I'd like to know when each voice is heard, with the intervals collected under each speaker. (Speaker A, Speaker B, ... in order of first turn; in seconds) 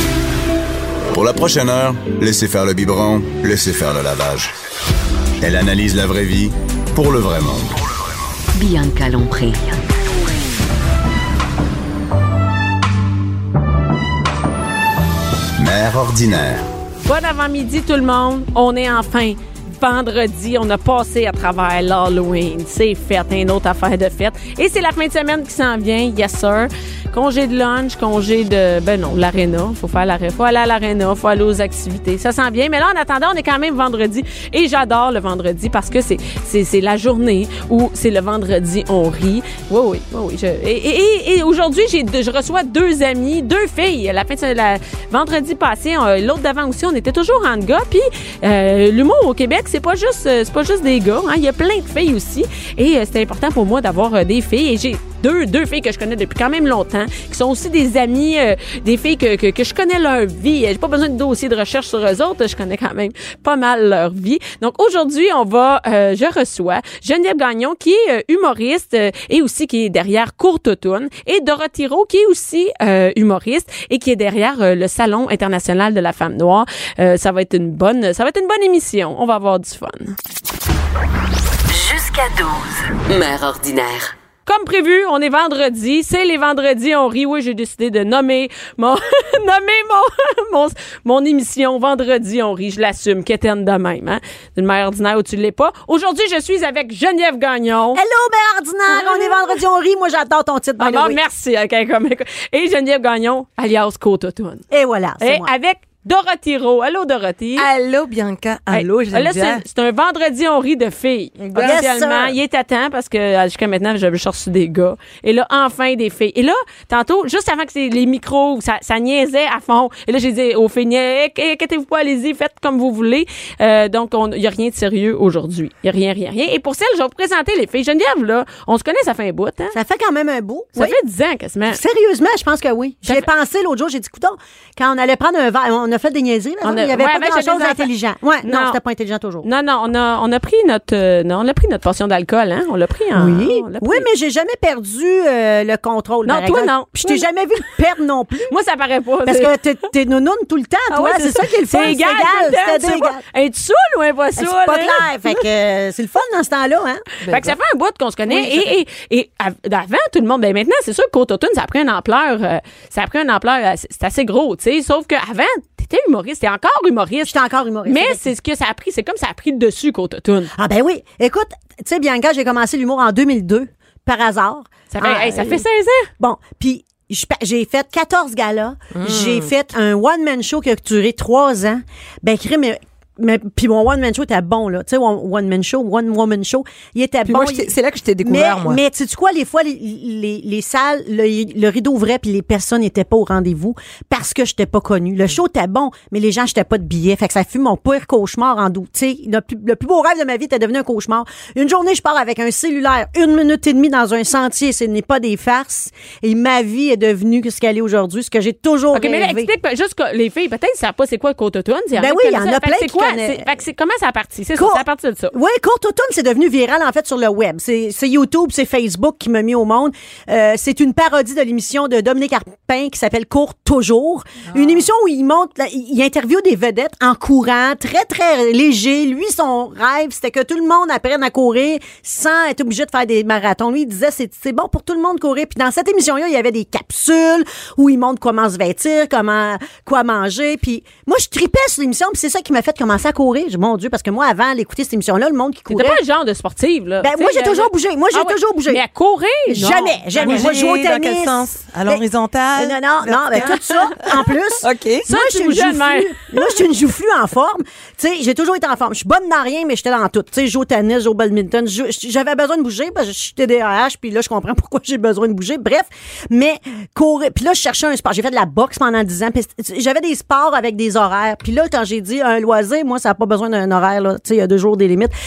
Speaker A: 1.1-4.5, 5.4-7.8, 15.6-16.6
Speaker B: 8.6-9.8, 81.7-84.1
Speaker C: 17.1-80.2, 84.5-98.0, 98.9-99.5, 100.8-104.6, 105.2-107.7, 108.7-129.8, 130.8-131.8, 136.6-137.9, 138.4-138.8, 139.4-144.1, 146.2-147.3, 148.5-149.5, 150.9-155.4, 157.2-167.3, 167.9-170.5, 174.9-176.1, 208.9-215.3, 245.7-250.4, 255.1-256.5
Speaker D: 97.9-101.2, 104.7-105.5, 111.5-112.4, 129.7-131.0, 131.7-139.5, 143.2-148.6, 149.2-153.2, 154.4-157.1, 158.3-158.7, 167.2-168.3, 170.6-175.6, 176.2-187.7, 188.2-209.5, 212.0-213.5, 214.6-246.0, 247.0-248.8, 249.5-252.1, 252.6-275.1
Speaker E: 107.6-109.6, 157.3-157.5, 178.9-179.5, 187.2-188.8, 250.1-255.1